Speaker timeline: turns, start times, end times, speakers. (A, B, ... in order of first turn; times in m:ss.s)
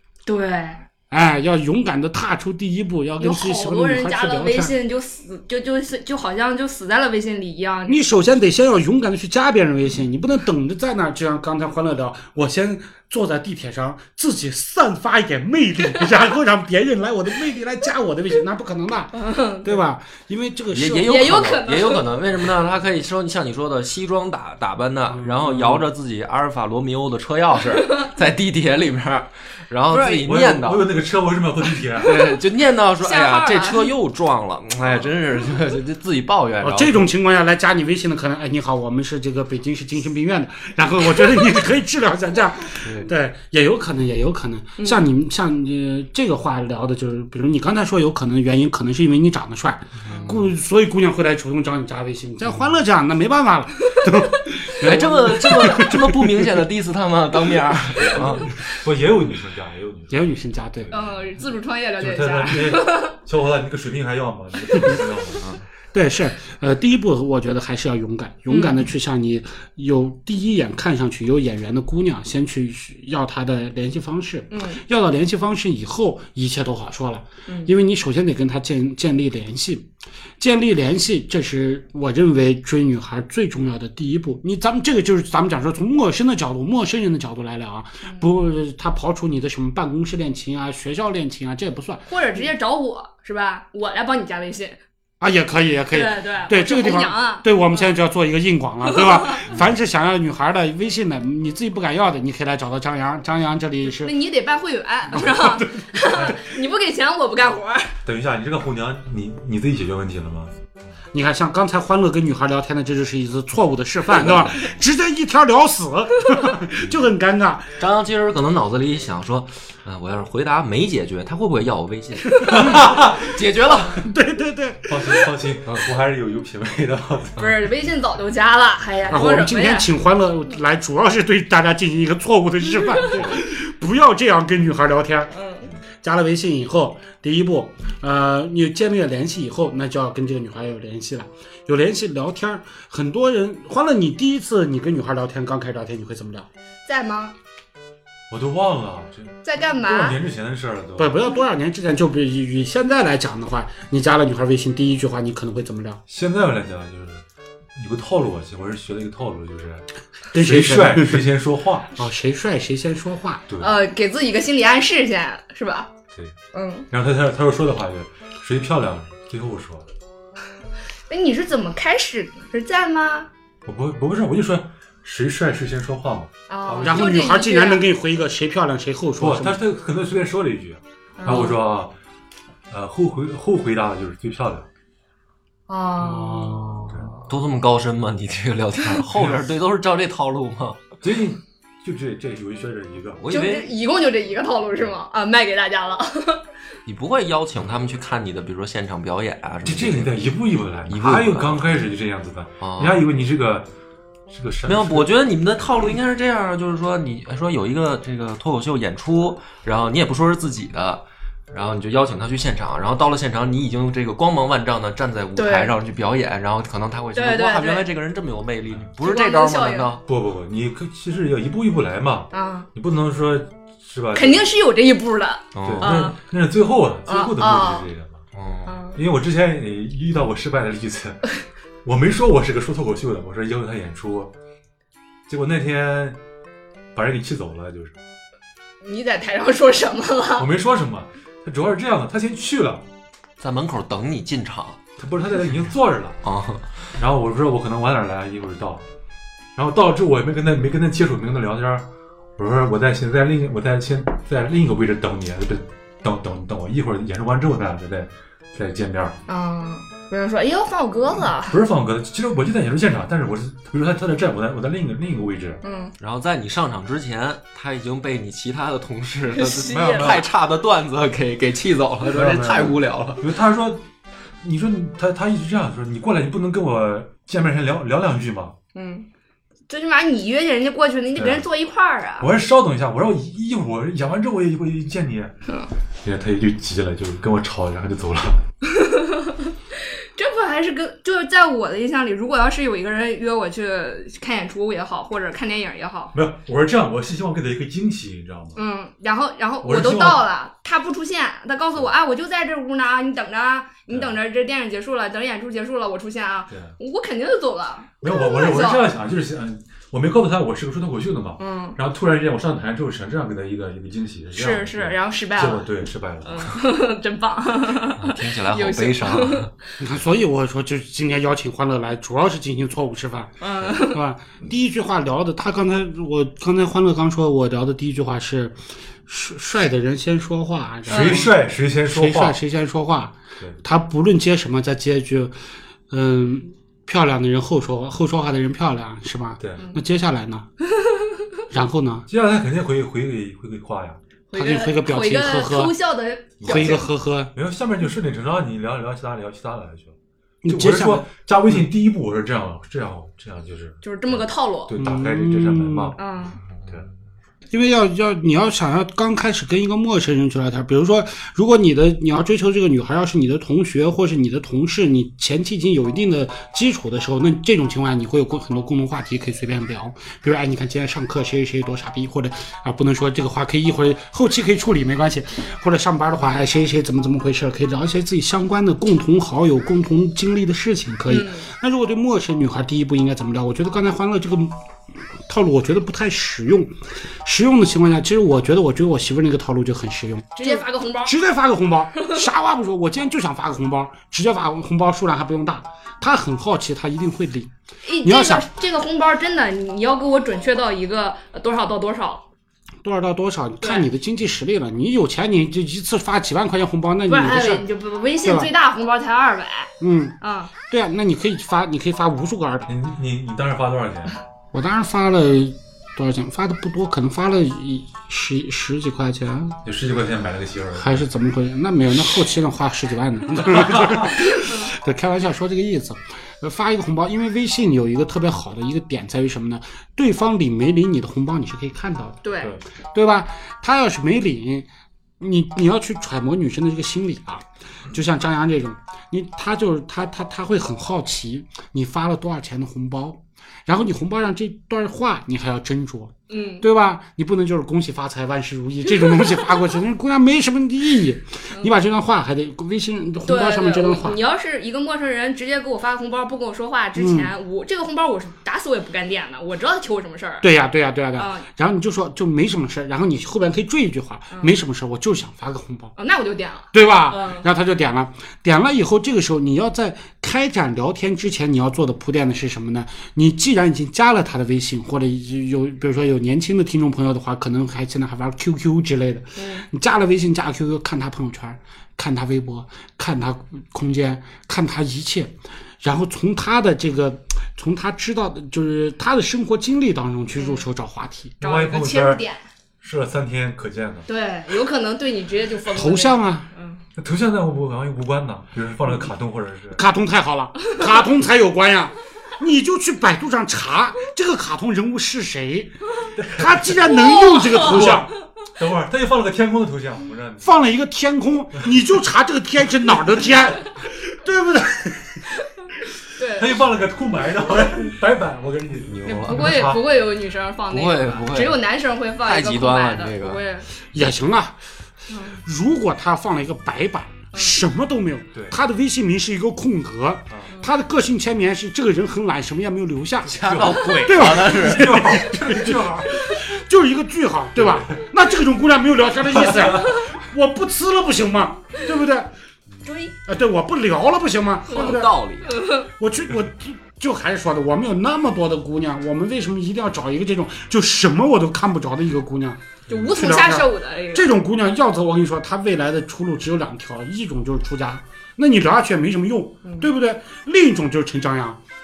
0:00.2-0:00.8 A
0:01.1-0:04.7 B
0:03.2-0:08.0 A
0:07.9-0:21.4 B
0:19.2-0:19.8 A
0:20.7-0:30.9 C
0:21.0-0:22.1 A
0:25.2-0:25.8 B
0:30.0-0:32.3 D
0:32.0-0:37.0 C
0:33.0-0:33.9 A
0:36.6-0:56.5 B
0:42.8-0:43.1 C
0:44.8-0:45.0 A
0:50.0-0:50.4 C
0:50.1-0:50.4 A
0:54.8-0:58.5 C
0:58.0-1:00.1 D
1:00.1-1:01.0 B
1:00.9-1:03.1 A
1:02.0-1:05.6 D
1:05.9-1:32.5 B
1:08.5-1:08.9 A
1:14.5-1:14.8 A
1:17.5-1:17.7 A
1:32.1-1:34.8 A
1:35.2-1:44.1 B
1:35.9-1:37.9 A
1:39.0-1:39.5 A
1:43.8-1:47.9 A
1:45.1-1:45.8 B
1:46.1-1:46.4 D
1:48.0-1:50.6 D
1:51.1-1:57.7 B
1:57.8-2:04.1 C
2:02.3-2:02.8 B
2:02.5-2:03.2 D
2:04.0-2:05.2 B
2:04.8-2:07.7 D
2:07.4-2:09.9 A
2:09.1-2:15.3 B
2:12.8-2:13.3 A
2:15.3-2:15.7 A
2:16.0-2:26.5 B
2:26.8-2:27.3 A
2:28.3-2:31.1 D
2:29.4-2:30.2 A
2:31.0-2:36.0 B
2:36.1-2:37.2 D
2:37.7-2:41.9 D
2:40.3-2:41.2 B
2:41.9-2:43.4 B
2:43.5-2:43.8 D
2:43.6-2:45.9 A
2:46.5-2:46.8 A
2:46.9-2:49.8 D
2:51.1-2:53.3 A
2:53.6-2:57.2 D
2:56.5-2:57.8 A
2:56.8-2:59.6 B
2:59.2-3:01.9 D
3:01.2-3:01.6 A
3:02.7-3:04.7 D
3:05.7-3:06.6 A
3:06.0-3:07.0 B
3:07.2-3:10.8 C
3:11.0-3:13.2 D
3:13.2-3:13.7 C
3:13.3-3:16.4 A
3:16.8-3:20.1 C
3:19.6-3:23.7 D
3:20.9-3:21.6 C
3:22.6-3:23.0 C
3:24.3-3:25.1 D
3:24.6-3:40.0 C
3:35.4-3:35.7 A
3:37.2-3:37.9 A
3:39.0-3:39.9 A
3:40.0-3:44.5 D
3:42.3-3:42.7 A
3:44.1-3:46.2 A
3:45.5-3:46.1 C
3:45.6-3:48.2 D
3:47.1-3:47.9 A
3:48.3-3:48.7 C
3:48.6-3:49.0 A
3:48.9-3:51.3 D
3:51.8-3:54.3 D
3:55.3-3:56.2 D
3:56.9-3:58.0 D
3:58.8-4:00.5 A
4:00.4-4:02.8 D
4:03.4-4:04.8 C
4:05.0-4:06.2 D
4:06.2-4:06.8 C
4:07.0-4:08.8 D
4:09.6-4:19.2 D
4:19.3-4:21.6 A
4:21.3-4:25.6 D
4:25.6-4:25.9 A
4:26.0-4:33.2 C
4:29.3-4:30.2 A
4:29.6-4:30.3 D
4:32.1-4:33.8 D
4:34.4-4:38.5 D
4:38.7-4:39.1 A
4:39.7-4:42.3 A
4:41.1-4:41.5 D
4:42.2-4:45.3 D
4:46.0-4:48.4 D
4:48.6-4:56.1 A
4:56.1-4:58.6 D
4:58.6-5:08.9 A
4:59.6-5:00.2 D
5:03.9-5:04.2 D
5:06.5-5:06.8 D
5:08.0-5:16.5 D
5:11.4-5:11.8 A
5:14.3-5:15.7 A
5:16.2-5:19.5 A
5:18.0-5:19.5 C
5:19.8-5:35.4 B
5:23.4-5:24.0 A
5:30.9-5:32.4 D
5:30.9-5:31.3 A
5:35.9-5:40.5 B
5:39.4-5:39.6 D
5:40.8-5:41.3 A
5:41.5-5:42.1 B
5:42.1-5:44.0 D
5:44.3-5:46.8 A
5:44.3-5:45.7 B
5:46.4-5:49.9 D
5:46.4-5:47.3 B
5:50.4-5:51.0 B
5:50.4-5:56.0 D
5:53.8-5:54.7 A
5:54.8-5:56.0 B
5:56.0-5:56.4 A
5:57.5-6:24.6 B
6:21.1-6:21.5 A
6:25.2-6:38.5 B
6:30.4-6:31.1 A
6:37.8-6:42.2 A
6:42.8-6:47.6 B
6:43.6-6:43.9 A
6:47.1-6:50.5 A
6:48.2-6:48.5 B
6:49.8-6:50.1 B
6:50.7-6:52.7 B
6:52.7-6:54.2 D
6:54.5-6:59.6 B
6:59.6-7:01.0 D
7:00.7-7:12.2 B
7:03.5-7:04.1 D
7:12.2-7:12.6 A
7:12.9-7:14.7 B
7:15.2-7:34.2 B
7:26.3-7:26.7 A
7:29.2-7:29.5 A
7:33.2-7:40.5 A
7:36.9-7:37.3 B
7:40.4-7:45.9 B
7:41.2-7:41.4 A
7:46.0-7:47.5 A
7:46.7-8:11.4 B
7:59.4-7:59.6 A
8:10.4-8:10.6 A
8:11.4-8:12.2 D
8:11.4-8:12.4 A
8:12.8-8:14.1 D
8:14.1-8:16.8 A
8:15.7-8:16.5 B
8:17.0-8:19.8 D
8:19.7-8:28.1 B
8:26.1-8:30.7 D
8:27.0-8:28.0 A
8:30.4-8:35.2 B
8:36.2-8:36.6 A
8:36.2-8:39.9 D
8:38.8-8:39.7 C
8:39.1-8:43.7 A
8:40.7-8:41.6 C
8:42.2-8:43.4 C
8:43.9-8:44.6 B
8:45.1-8:45.4 A
8:45.3-9:02.3 B
8:53.2-8:55.0 C
8:53.3-8:56.4 D
8:57.6-8:58.0 D
8:59.4-9:00.0 D
9:02.8-9:03.2 A
9:03.2-9:05.1 B
9:04.7-9:05.6 C
9:04.8-9:05.9 A
9:05.9-9:12.6 B
9:12.9-9:14.3 A
9:13.1-9:21.6 B
9:19.6-9:19.9 A